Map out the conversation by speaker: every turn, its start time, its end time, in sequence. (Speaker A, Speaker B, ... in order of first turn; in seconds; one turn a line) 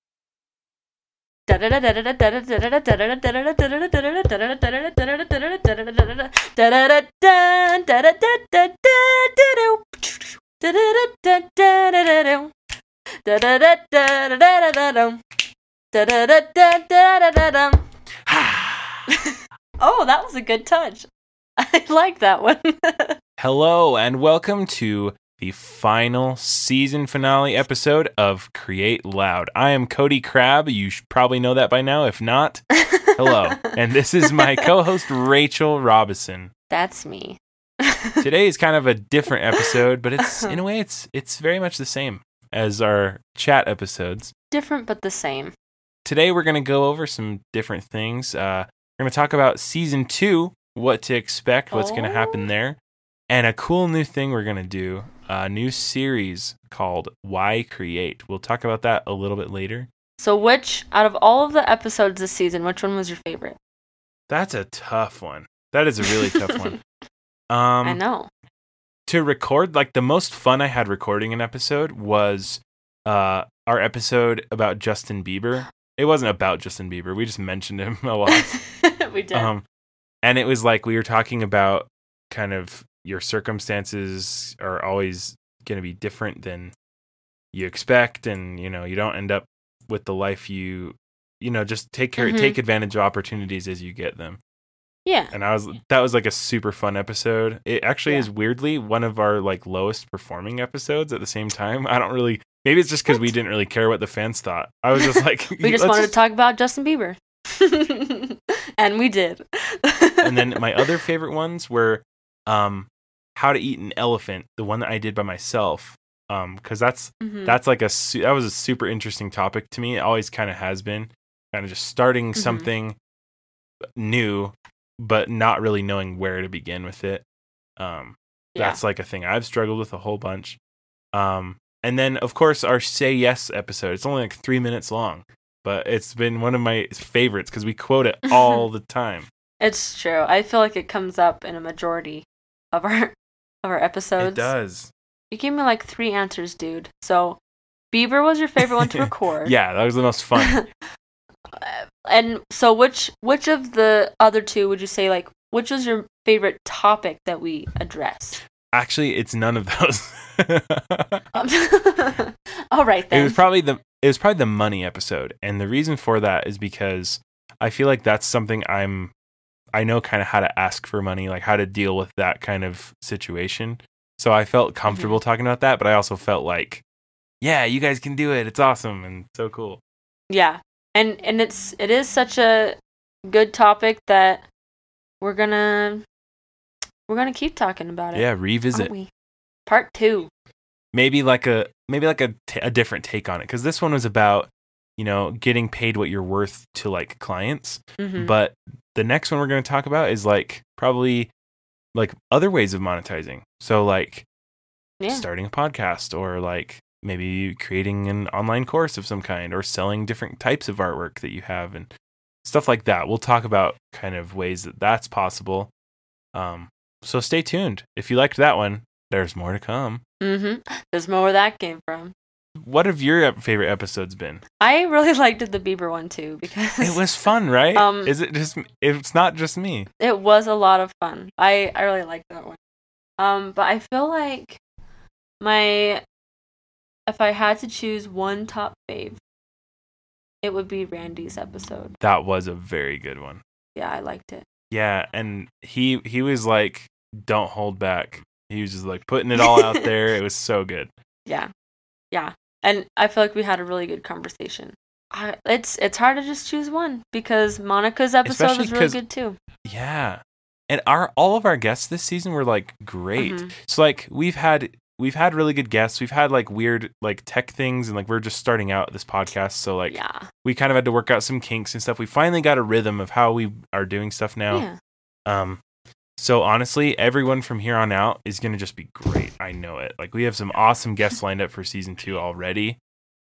Speaker A: 1.5-12.5
Speaker A: 13.2-15.2
Speaker A: 15.9-17.8
Speaker B: 18.3-19.1
Speaker A: 19.2-21.1
Speaker A: 21.6-23.2
Speaker B: 23.4-36.5
Speaker A: 36.7-38.1
Speaker B: 38.2-44.3
Speaker A: 44.5-45.5
Speaker B: 46.0-52.8
Speaker A: 51.7-52.4
Speaker B: 53.3-59.9
Speaker A: 60.2-63.6
Speaker B: 64.3-66.8
Speaker A: 66.1-66.7
Speaker B: 67.5-68.0
Speaker A: 67.8-68.3
Speaker B: 69.1-78.6
Speaker A: 78.3-79.5
Speaker B: 79.3-79.6
Speaker B: 80.2-86.7
Speaker B: 87.5-94.4
Speaker A: 92.2-92.6
Speaker A: 95.0-95.3
Speaker B: 95.3-106.1
Speaker A: 105.6-110.5
Speaker B: 110.2-123.0
Speaker A: 117.2-117.6
Speaker A: 122.3-122.7
Speaker B: 124.0-127.2
Speaker B: 127.8-130.6
Speaker A: 128.5-128.8
Speaker B: 131.1-139.3
Speaker A: 138.3-138.6
Speaker A: 139.6-144.5
Speaker B: 144.2-144.9
Speaker A: 145.3-147.4
Speaker A: 147.9-149.5
Speaker B: 148.6-150.6
Speaker A: 150.4-150.7
Speaker A: 151.5-158.4
Speaker B: 158.7-161.2
Speaker A: 161.3-163.4
Speaker B: 163.1-169.1
Speaker B: 169.7-176.8
Speaker A: 174.9-175.2
Speaker B: 177.4-179.8
Speaker A: 180.3-184.4
Speaker A: 185.2-186.0
Speaker A: 187.1-189.1
Speaker B: 188.1-188.9
Speaker A: 189.7-190.3
Speaker B: 190.9-201.3
Speaker A: 198.0-198.3
Speaker B: 201.9-204.2
Speaker A: 205.0-205.2
Speaker B: 205.1-211.9
Speaker B: 212.4-215.7
Speaker B: 216.3-220.0
Speaker A: 220.2-222.1
Speaker B: 222.6-224.4
Speaker A: 224.6-227.0
Speaker B: 226.8-229.9
Speaker A: 227.7-228.1
Speaker A: 230.0-232.6
Speaker A: 233.2-234.6
Speaker A: 235.4-236.0
Speaker A: 237.1-239.2
Speaker A: 240.4-241.9
Speaker B: 242.0-243.4
Speaker A: 243.7-244.4
Speaker B: 244.7-250.9
Speaker A: 249.4-249.9
Speaker A: 252.1-259.4
Speaker B: 258.2-259.0
Speaker B: 259.6-274.6
Speaker A: 263.2-263.5
Speaker A: 269.9-270.3
Speaker A: 274.5-274.8
Speaker B: 275.3-275.6
Speaker B: 276.2-282.8